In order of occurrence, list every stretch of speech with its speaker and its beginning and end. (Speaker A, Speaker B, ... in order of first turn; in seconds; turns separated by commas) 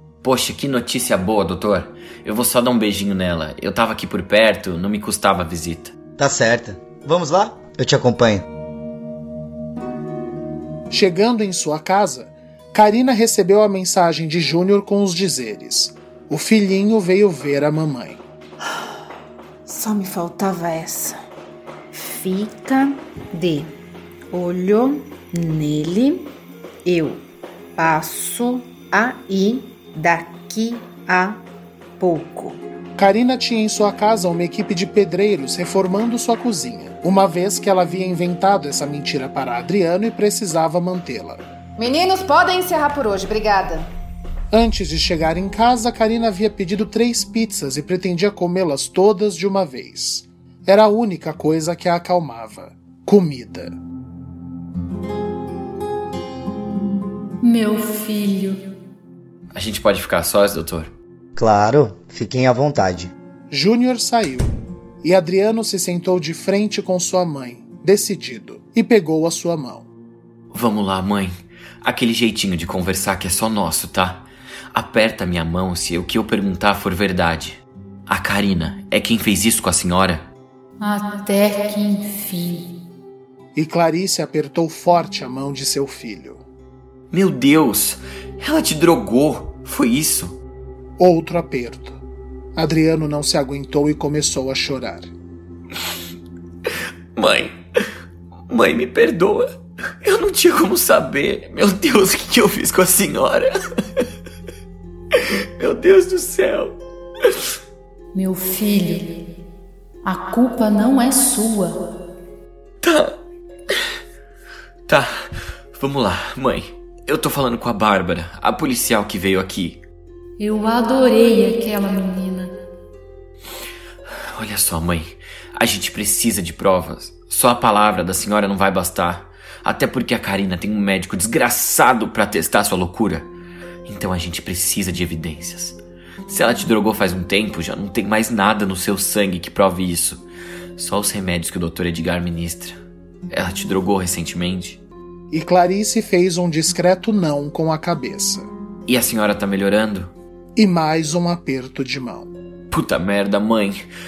Speaker A: 0.2-5.9, Speaker B: 6.2-8.5, Speaker C: 10.9-18.2, Speaker D: 19.7-21.2, Speaker D: 21.9-23.8, Speaker D: 24.3-26.3, Speaker D: 26.9-31.4, Speaker D: 32.0-32.6, Speaker C: 33.0-41.4, Speaker D: 41.8-43.9, Speaker C: 44.5-53.7, Speaker E: 57.4-58.6, Speaker A: 59.5-60.9, Speaker B: 61.4-63.1, Speaker C: 63.5-64.5, Speaker C: 65.0-69.9, Speaker A: 70.5-80.3, Speaker E: 80.8-82.7, Speaker C: 83.5-86.4, Speaker A: 87.1-90.4, Speaker C: 91.0-92.0, Speaker C: 92.6-95.1, Speaker A: 97.2-97.6, Speaker A: 98.5-99.5, Speaker A: 100.0-103.6, Speaker A: 105.6-106.8, Speaker E: 108.1-109.2, Speaker E: 110.0-111.8, Speaker A: 112.8-113.2, Speaker A: 114.9-119.8, Speaker E: 120.4-122.5, Speaker A: 124.3-133.3, Speaker A: 133.9-140.2, Speaker A: 140.8-142.8, Speaker A: 143.3-144.8, Speaker C: 145.3-148.5, Speaker A: 148.9-150.1, Speaker C: 150.6-152.3, Speaker A: 152.7-153.8